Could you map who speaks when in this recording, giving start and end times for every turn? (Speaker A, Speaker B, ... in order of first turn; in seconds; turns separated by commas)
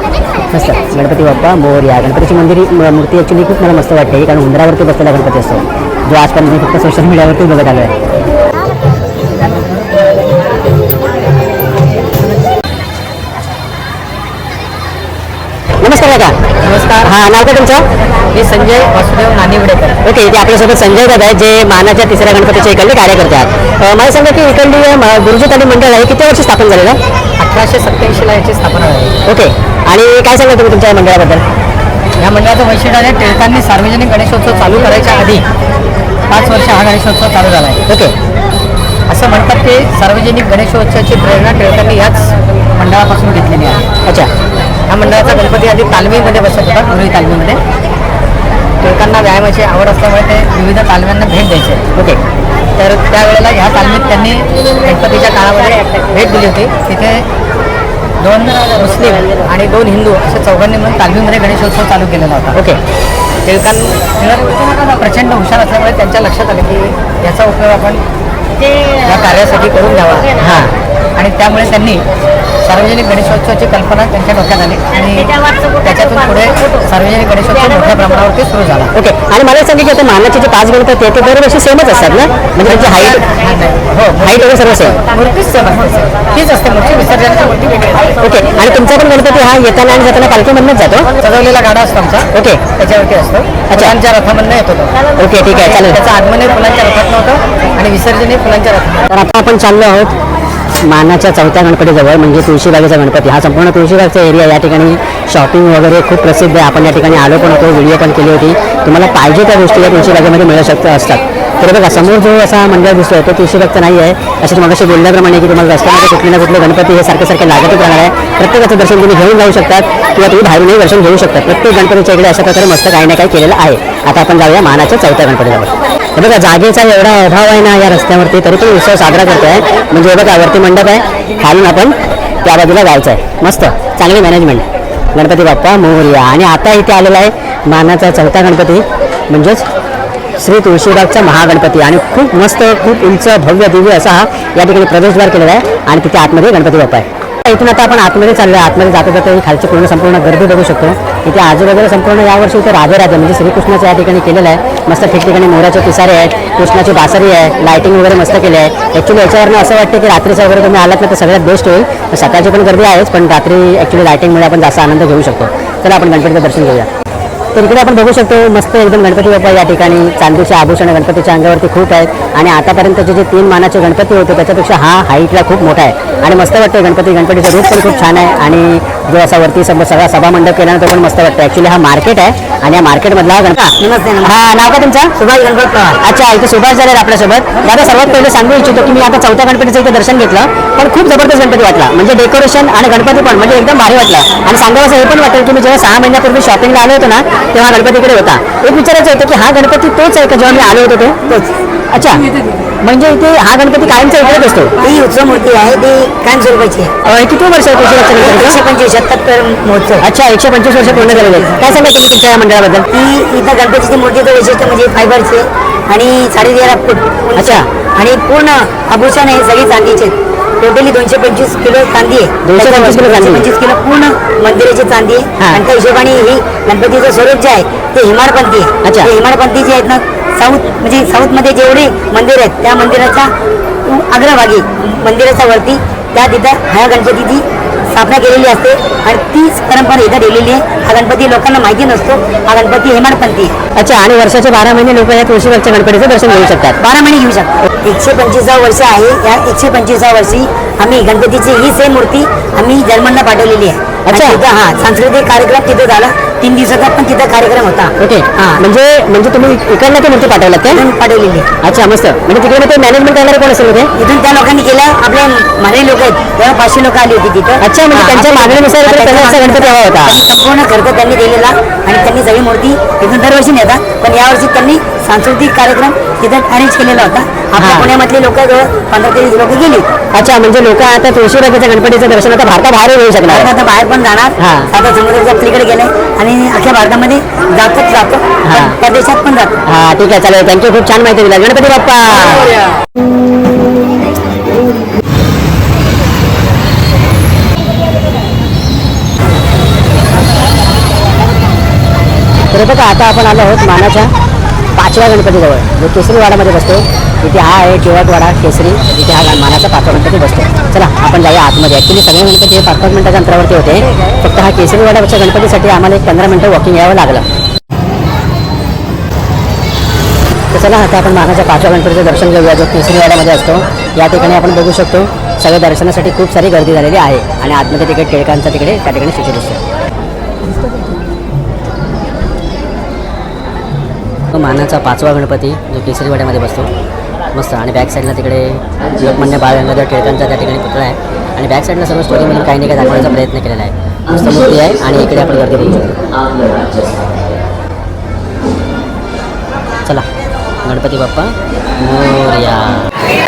Speaker A: 0.5-8.0, Speaker A: 15.8-16.4, Speaker B: 16.6-17.1, Speaker A: 17.0-17.9, Speaker B: 18.3-20.0, Speaker A: 20.0-27.0, Speaker B: 27.4-29.1, Speaker A: 29.2-31.4, Speaker B: 32.2-35.4, Speaker B: 36.3-37.8, Speaker A: 37.9-38.1, Speaker B: 39.1-43.8, Speaker B: 44.9-47.6, Speaker B: 48.8-51.9, Speaker B: 52.8-57.2, Speaker B: 58.2-62.6, Speaker B: 63.4-68.0, Speaker B: 69.0-70.3, Speaker A: 70.4-70.7, Speaker B: 71.2-72.0, Speaker B: 72.6-78.9, Speaker A: 78.9-83.3, Speaker B: 82.6-84.5, Speaker A: 84.2-85.0, Speaker B: 85.1-88.1, Speaker A: 88.2-91.1, Speaker B: 91.2-94.9, Speaker A: 92.3-92.6, Speaker A: 93.7-94.0, Speaker A: 95.2-96.0, Speaker B: 95.5-99.0, Speaker A: 99.1-100.1, Speaker A: 100.8-139.7, Speaker A: 140.3-166.9, Speaker A: 167.5-185.2, Speaker C: 183.8-184.3, Speaker C: 185.2-186.0, Speaker A: 186.0-201.2, Speaker C: 201.3-201.6, Speaker A: 201.9-202.3, Speaker A: 202.8-204.8, Speaker C: 204.8-206.9, Speaker A: 207.0-208.6, Speaker C: 208.1-210.1, Speaker A: 210.0-212.9, Speaker C: 212.9-233.3, Speaker A: 217.3-217.7, Speaker A: 222.4-223.5, Speaker A: 225.4-225.6, Speaker A: 228.8-229.1, Speaker C: 233.8-243.6, Speaker A: 243.7-246.8, Speaker C: 246.8-258.6, Speaker A: 254.1-254.4, Speaker A: 258.0-260.8, Speaker C: 260.7-261.5, Speaker A: 261.6-263.9, Speaker C: 263.9-280.0, Speaker A: 267.6-270.2, Speaker A: 277.5-277.9, Speaker A: 280.1-283.5, Speaker C: 283.2-289.5, Speaker A: 284.4-284.7, Speaker A: 288.4-288.8, Speaker A: 289.6-292.6, Speaker A: 302.5-304.1, Speaker A: 304.7-317.2, Speaker A: 320.5-329.6, Speaker A: 334.3-336.7, Speaker A: 337.3-346.0, Speaker A: 350.6-352.9